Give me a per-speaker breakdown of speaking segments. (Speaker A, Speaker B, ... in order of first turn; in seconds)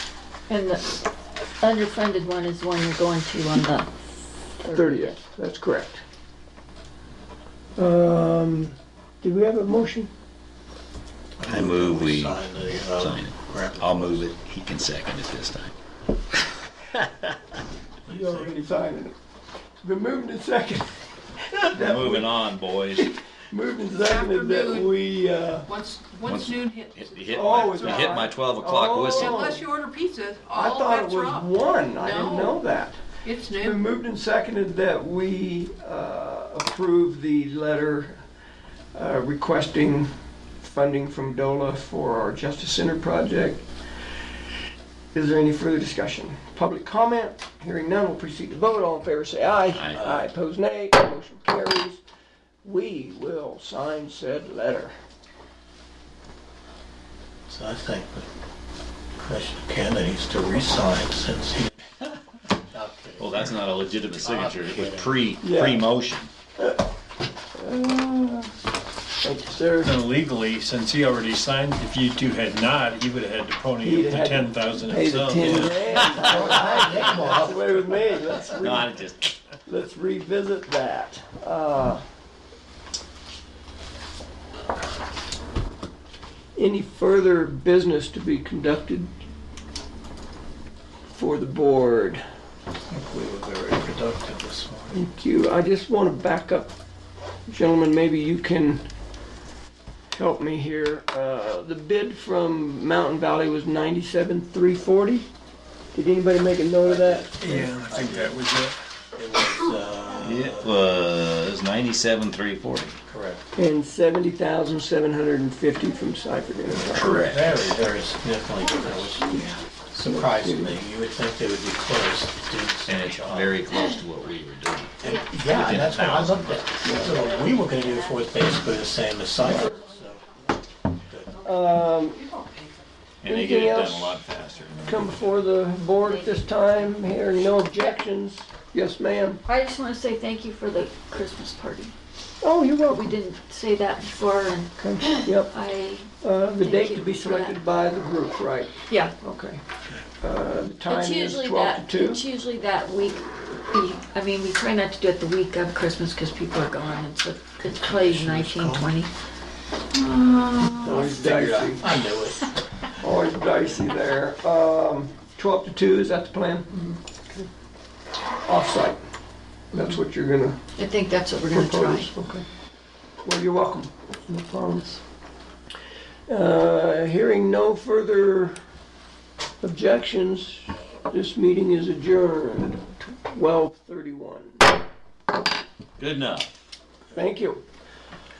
Speaker A: 0.5-1.0, 1.6-3.9, 4.6-5.2, 136.0-136.5, 139.4-141.9, 142.9-147.6, 148.9-149.1, 150.8-159.1, 159.9-161.2, 170.7-172.1
Speaker B: 4.7-6.0, 7.8-10.1, 18.1-19.1, 19.8-25.7, 27.3-29.6, 30.5-33.0, 33.5-38.2, 38.9-40.1, 40.6-43.6, 45.1-52.0, 52.6-54.9, 65.4-65.9, 67.6-68.5, 69.2-70.0, 73.8-79.1, 79.6-82.0, 86.5-89.1, 91.1-92.2, 94.9-96.7, 97.5-98.8, 100.1-105.3, 105.9-107.4, 113.5-117.2, 120.0-120.8, 126.8-127.2, 129.4-129.7, 131.4-132.2, 133.2-134.2, 134.9-139.4, 142.4-143.1, 144.8-145.5, 146.2-149.6, 150.2-152.2, 160.8-161.9, 163.0-166.8, 168.4-169.0, 169.7-170.6, 171.5-172.4, 173.2-175.0, 176.3-178.6, 179.6-184.6, 187.1-187.6
Speaker C: 11.4-14.3, 18.1-18.5, 57.5-58.3, 59.2-61.8, 62.7-63.5, 64.2-65.1, 75.5-78.2, 92.9-95.0, 106.8-110.8, 113.1-113.4, 116.9-123.6, 125.0-130.3, 131.1-131.3, 157.8-158.9, 160.8-162.5
Speaker D: 11.4-15.7, 21.7-23.1, 26.2-29.4, 49.7-50.0, 63.2-66.3, 75.9-76.7, 78.5-79.3, 110.2-113.0, 116.9-117.5, 122.9-126.6, 133.2-135.2, 186.0-186.5
Speaker E: 23.9-25.0, 25.6-28.2, 29.1-32.6, 33.2-33.8, 132.2-132.8
Speaker F: 69.8-76.2, 107.4-108.7